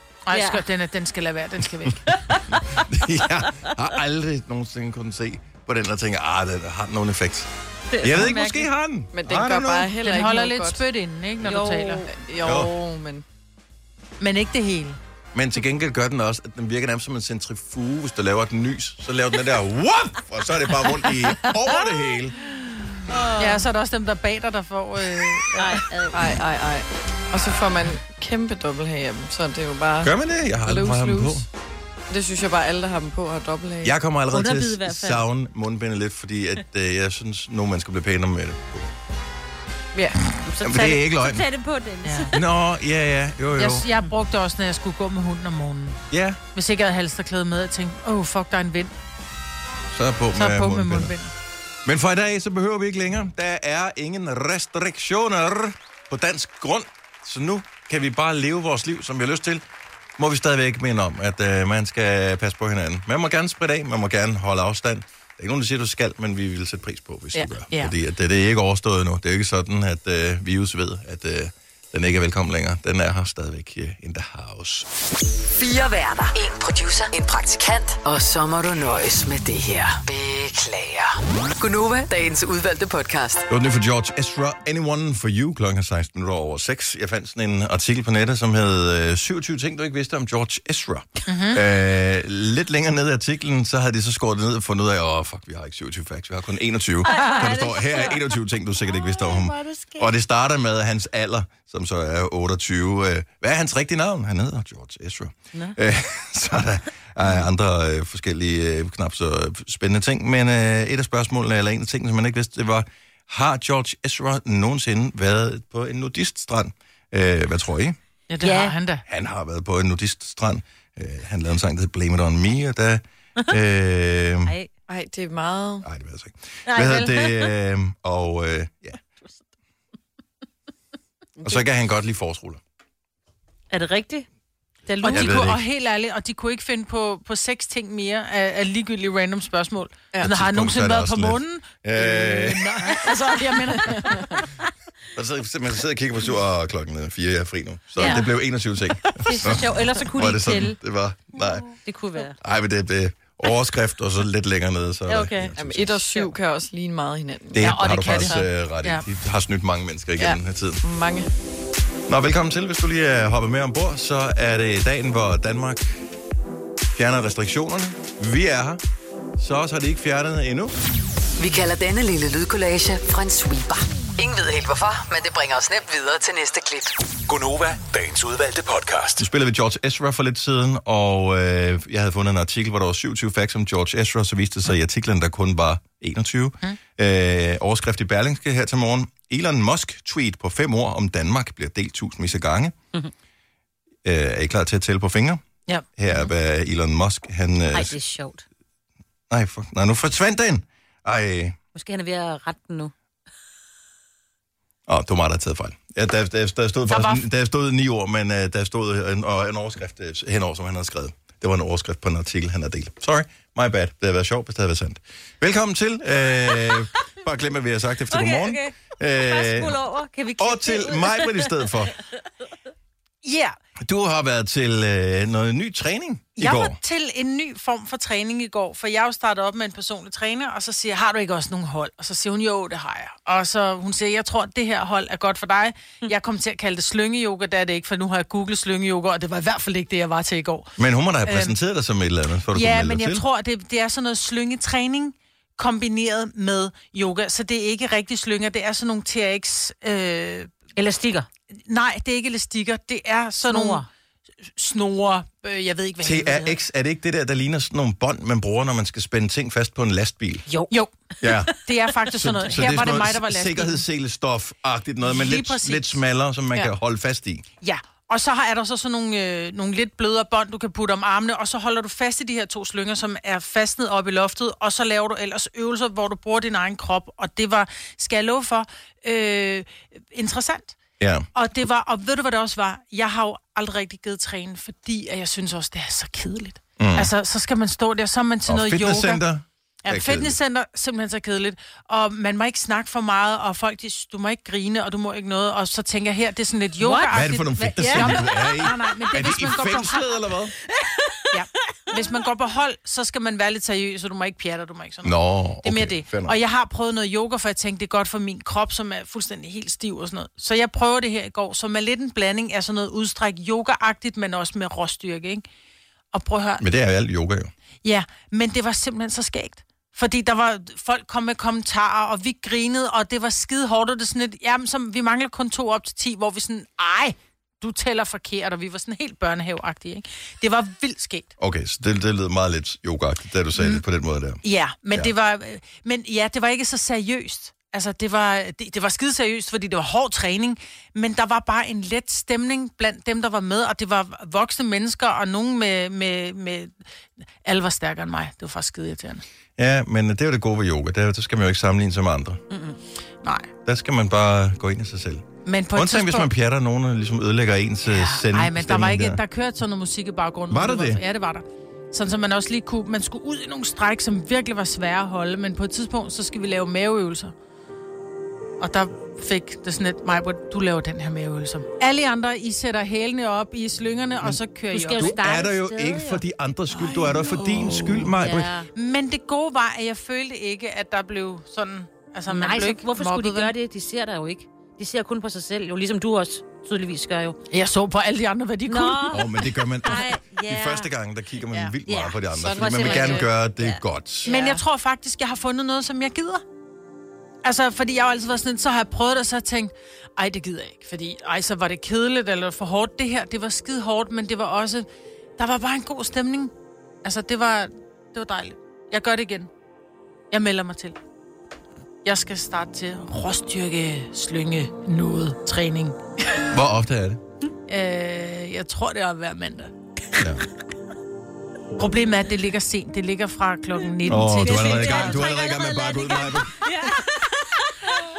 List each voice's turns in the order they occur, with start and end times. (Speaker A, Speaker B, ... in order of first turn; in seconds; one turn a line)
Speaker A: 0.2-2.1
Speaker B: 0.3-0.6
Speaker B: 2.1-2.5
Speaker C: 2.5-7.5
Speaker B: 7.9-8.7
Speaker C: 8.0-9.9
Speaker D: 9.1-10.8
Speaker A: 10.0-12.1
Speaker B: 11.4-12.1
Speaker D: 12.1-13.2
Speaker C: 12.4-12.7
Speaker A: 14.2-15.0
Speaker C: 15.3-22.4
Speaker B: 23.1-23.6
Speaker A: 23.4-25.7
Speaker B: 25.5-26.3
Speaker D: 26.1-31.4
Speaker C: 30.0-31.4
Speaker D: 32.1-33.9
Speaker C: 33.8-38.9
Speaker B: 34.3-35.2
Speaker B: 40.4-42.5
Speaker C: 40.6-41.4
Speaker A: 42.0-42.3
Speaker C: 42.3-43.9
Speaker A: 43.6-46.0
Speaker C: 46.1-46.4
Speaker A: 46.5-48.9
Speaker C: 49.9-51.1
Speaker A: 50.3-51.3
Speaker C: 51.8-59.6
Speaker C: 60.2-74.9
Speaker E: 75.6-83.4
Speaker C: 83.5-118.0
Speaker A: 91.3-91.6
Speaker B: 97.0-100.1
Speaker A: 118.3-119.0
Speaker B: 118.4-118.7
Speaker C: 119.1-124.5
Speaker D: 124.9-125.8
Speaker C: 125.8-129.0
Speaker B: 126.7-127.5
Speaker C: 131.4-132.6
Speaker B: 133.7-134.2
Speaker B: 134.9-135.5
Speaker A: 135.0-144.2
Speaker C: 135.0-135.6
Speaker C: 140.2-142.9
Speaker D: 143.7-144.3
Speaker C: 145.1-151.7
Speaker B: 148.0-148.3
Speaker B: 149.2-150.8
Speaker B: 151.8-152.3
Speaker C: 152.4-156.0
Speaker B: 155.1-155.5
Speaker D: 155.6-158.4
Speaker C: 157.5-160.8
Speaker A: 157.6-159.0
Speaker D: 160.2-161.3
Speaker C: 162.1-166.0
Speaker C: 166.9-168.8
Speaker C: 169.4-170.7
Speaker E: 171.4-176.9
Speaker F: 177.3-179.2
Speaker C: 179.2-192.7
Speaker C: 194.0-195.4
Speaker C: 196.0-197.9
Speaker B: 197.7-198.4
Speaker C: 199.3-201.6
Speaker B: 201.7-202.9
Speaker C: 204.9-219.8
Speaker A: 206.9-207.2
Speaker B: 218.1-221.5
Speaker C: 220.4-221.9
Speaker A: 223.2-223.5
Speaker C: 223.8-226.8
Speaker A: 226.4-240.7
Speaker C: 240.8-243.2
Speaker A: 241.2-241.5
Speaker A: 242.5-250.5
Speaker B: 250.8-251.3
Speaker A: 251.5-253.8
Speaker B: 253.5-253.8
Speaker A: 254.5-256.6
Speaker C: 256.0-260.5
Speaker C: 261.2-261.5
Speaker A: 261.6-263.8
Speaker C: 262.1-267.4
Speaker A: 265.0-265.9
Speaker A: 267.6-280.8
Speaker C: 281.0-281.3
Speaker A: 281.3-289.2
Speaker C: 286.8-287.1
Speaker C: 288.5-290.4
Speaker A: 289.8-300.0
Speaker B: 296.8-298.5
Speaker C: 297.1-300.5
Speaker B: 300.8-301.2
Speaker A: 301.3-315.4
Speaker C: 305.0-306.4
Speaker A: 316.1-316.6
Speaker C: 316.6-317.5
Speaker A: 317.8-331.3
Speaker C: 331.4-334.4
Speaker A: 333.6-333.8
Speaker A: 334.4-346.8
Speaker A: 347.4-349.2
Speaker C: 349.6-352.4
Speaker B: 352.5-352.8
Speaker A: 353.2-353.5
Speaker C: 353.6-359.2
Speaker A: 355.4-356.3
Speaker A: 357.9-367.3
Speaker C: 360.5-361.0
Speaker A: 368.6-375.1
Speaker B: 374.7-376.2
Speaker C: 375.0-378.5
Speaker A: 376.8-377.9
Speaker B: 378.2-378.7
Speaker A: 378.7-383.5
Speaker B: 382.3-387.4
Speaker A: 387.5-389.1
Speaker B: 388.7-390.9
Speaker C: 389.1-394.3
Speaker B: 391.9-393.8
Speaker D: 392.4-393.3
Speaker D: 394.2-394.6
Speaker A: 394.2-396.4
Speaker A: 397.4-404.9
Speaker A: 405.4-406.5
Speaker A: 407.0-409.5
Speaker A: 410.3-411.0
Speaker A: 412.0-416.0
Speaker C: 416.5-417.2
Speaker A: 417.7-419.7
Speaker C: 420.2-420.4
Speaker A: 421.8-425.3
Speaker C: 424.1-426.6
Speaker B: 424.1-428.0